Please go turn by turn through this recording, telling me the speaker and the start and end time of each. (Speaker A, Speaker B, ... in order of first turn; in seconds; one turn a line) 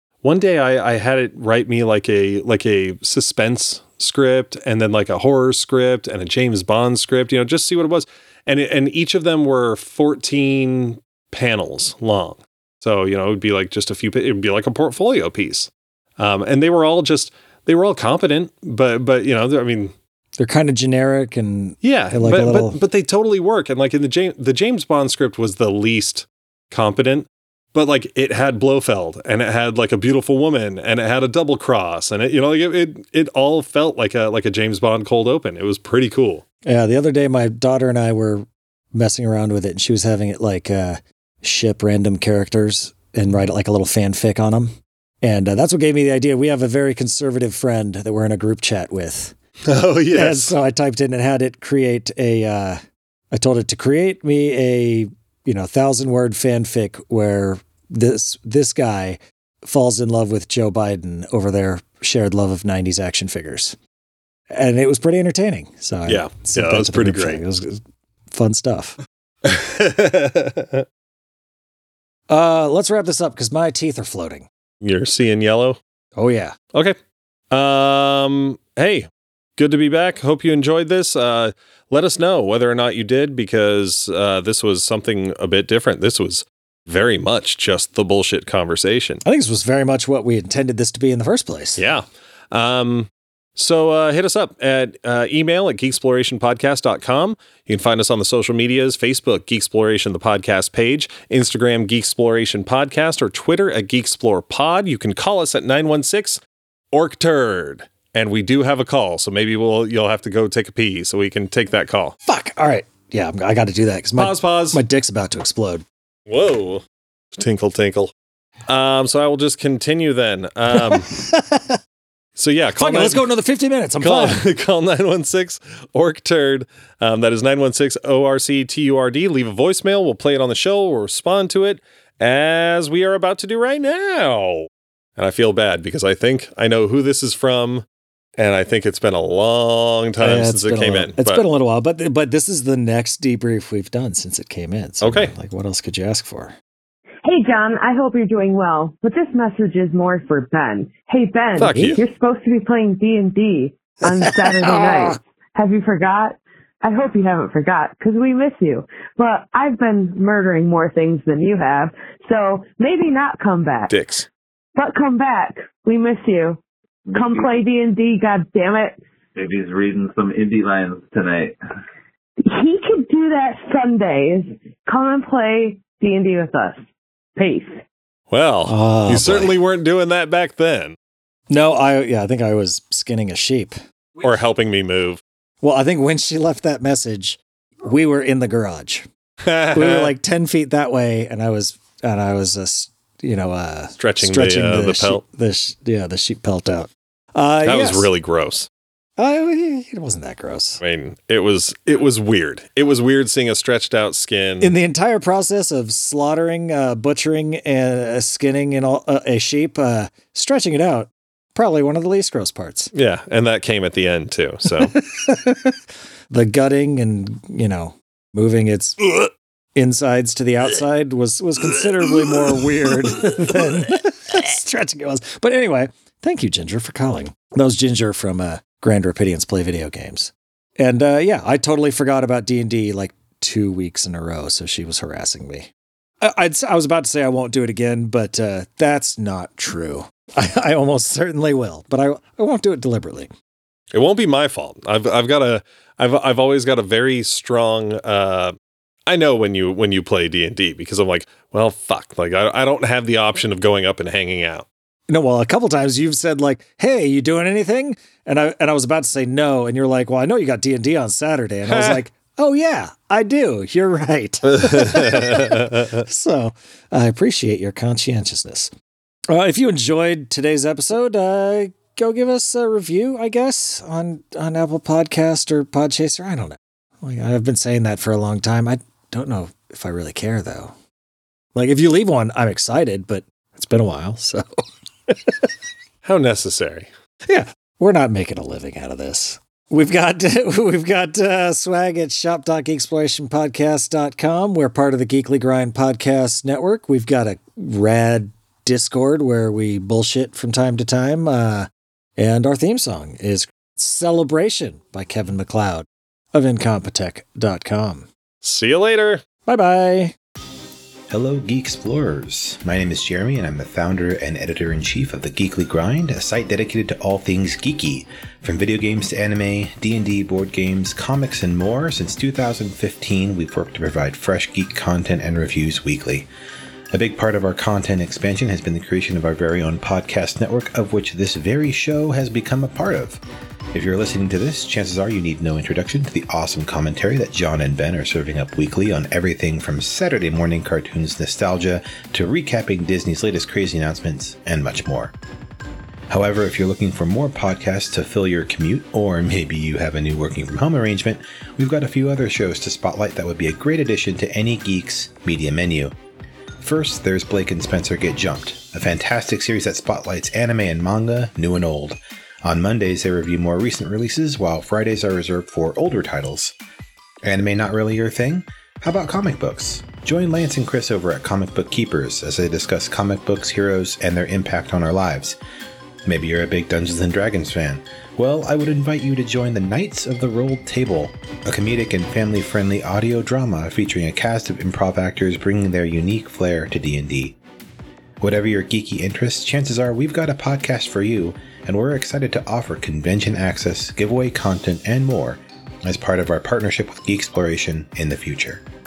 Speaker A: 0.2-19.9
Speaker B: 20.4-22.8
Speaker A: 21.8-36.4
Speaker B: 36.6-49.4
Speaker A: 49.6-50.5
Speaker B: 50.1-52.8
Speaker B: 53.3-63.8
Speaker B: 64.5-69.0
Speaker A: 66.1-67.4
Speaker A: 69.4-70.8
Speaker B: 72.3-74.5
Speaker A: 74.8-75.8
Speaker B: 76.2-76.6
Speaker A: 77.5-89.2
Speaker B: 89.2-91.8
Speaker A: 91.8-106.4
Speaker A: 106.9-112.2
Speaker B: 112.3-115.8
Speaker A: 114.2-114.8
Speaker A: 116.3-116.8
Speaker A: 117.3-118.1
Speaker A: 118.7-121.1
Speaker B: 120.8-121.8
Speaker A: 122.4-123.2
Speaker B: 122.8-124.4
Speaker A: 124.0-137.8
Speaker A: 138.4-141.4
Speaker B: 140.2-146.6
Speaker A: 145.0-145.3
Speaker C: 147.2-163.9
Speaker A: 151.6-152.0
Speaker B: 151.7-152.0
Speaker B: 154.6-155.0
Speaker A: 163.9-164.3
Speaker C: 164.8-166.6
Speaker D: 167.1-167.5
Speaker C: 167.2-169.0
Speaker D: 169.3-171.6
Speaker C: 172.4-176.8
Speaker C: 177.4-177.8
Speaker A: 178.3-181.0
Speaker B: 178.7-179.6
Speaker B: 181.5-183.7
Speaker A: 184.2-185.2
Speaker B: 185.6-189.1
Speaker A: 189.4-190.1
Speaker B: 189.7-198.1
Speaker A: 194.0-195.2
Speaker A: 197.6-198.7
Speaker B: 199.2-200.8
Speaker A: 200.8-204.7
Speaker B: 204.6-212.9
Speaker A: 212.9-214.9
Speaker B: 214.9-215.8
Speaker B: 216.3-235.7
Speaker B: 236.2-243.3
Speaker A: 243.9-254.7
Speaker B: 255.1-268.7
Speaker A: 261.7-262.0
Speaker A: 264.6-266.0
Speaker B: 269.3-280.7
Speaker B: 281.6-284.4
Speaker B: 285.1-285.5
Speaker A: 286.0-286.9
Speaker B: 287.3-308.1
Speaker A: 308.4-309.2
Speaker B: 309.5-310.1
Speaker E: 311.1-326.3
Speaker E: 326.9-333.2
Speaker E: 333.7-345.1
Speaker E: 346.1-355.9
Speaker E: 356.6-366.5
Speaker E: 367.3-375.4
Speaker E: 376.1-387.4
Speaker E: 388.2-398.6